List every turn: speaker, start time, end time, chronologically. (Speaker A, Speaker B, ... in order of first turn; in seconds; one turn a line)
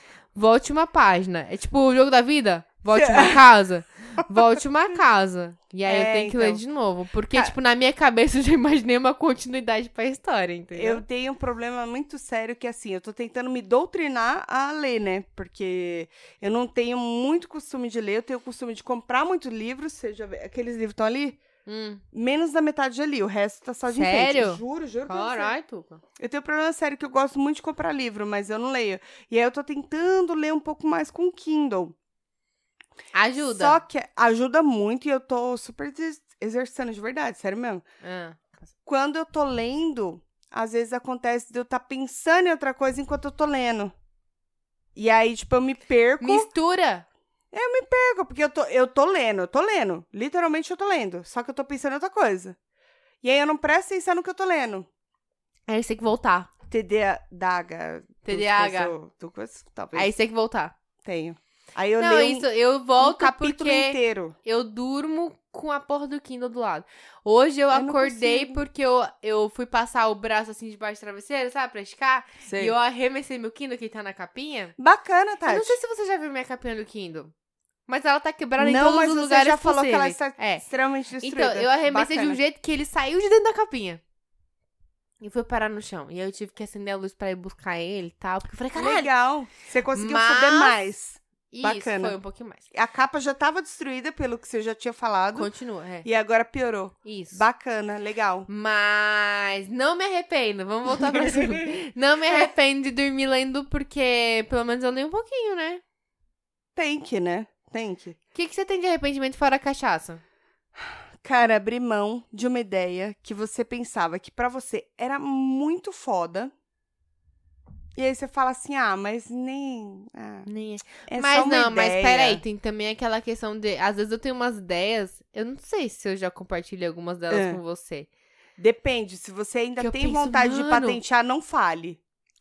Speaker A: 0.3-11.0
Speaker B: 2.9-3.4
Speaker B: 5.9-6.6
Speaker B: 10.7-21.4
Speaker A: 21.7-22.0
Speaker B: 22.1-25.5
Speaker A: 23.9-26.0
Speaker B: 26.2-31.9
Speaker A: 33.1-33.8
Speaker B: 33.4-37.8
Speaker A: 38.0-38.6
Speaker B: 38.9-43.9
Speaker B: 45.0-46.5
Speaker A: 46.2-47.1
Speaker B: 47.5-52.6
Speaker B: 53.2-54.9
Speaker A: 55.7-56.5
Speaker B: 56.7-60.1
Speaker A: 58.2-58.9
Speaker A: 59.9-60.7
Speaker B: 61.0-62.5
Speaker A: 62.0-74.8
Speaker B: 63.0-64.3
Speaker B: 67.7-68.6
Speaker B: 72.4-72.8
Speaker B: 74.8-75.8
Speaker A: 75.5-77.3
Speaker A: 77.9-80.6
Speaker B: 78.6-82.4
Speaker A: 81.2-84.0
Speaker A: 85.2-89.1
Speaker B: 88.8-92.2
Speaker A: 89.9-90.8
Speaker A: 91.5-92.7
Speaker B: 92.7-95.5
Speaker A: 95.3-96.1
Speaker B: 96.0-98.5
Speaker A: 97.0-97.4
Speaker A: 98.5-105.8
Speaker B: 100.9-101.7
Speaker B: 106.8-108.2
Speaker A: 108.3-110.2
Speaker B: 110.8-116.5
Speaker B: 118.0-120.5
Speaker A: 120.5-128.1
Speaker B: 121.1-122.4
Speaker B: 127.3-127.6
Speaker B: 128.6-132.0
Speaker A: 129.8-131.0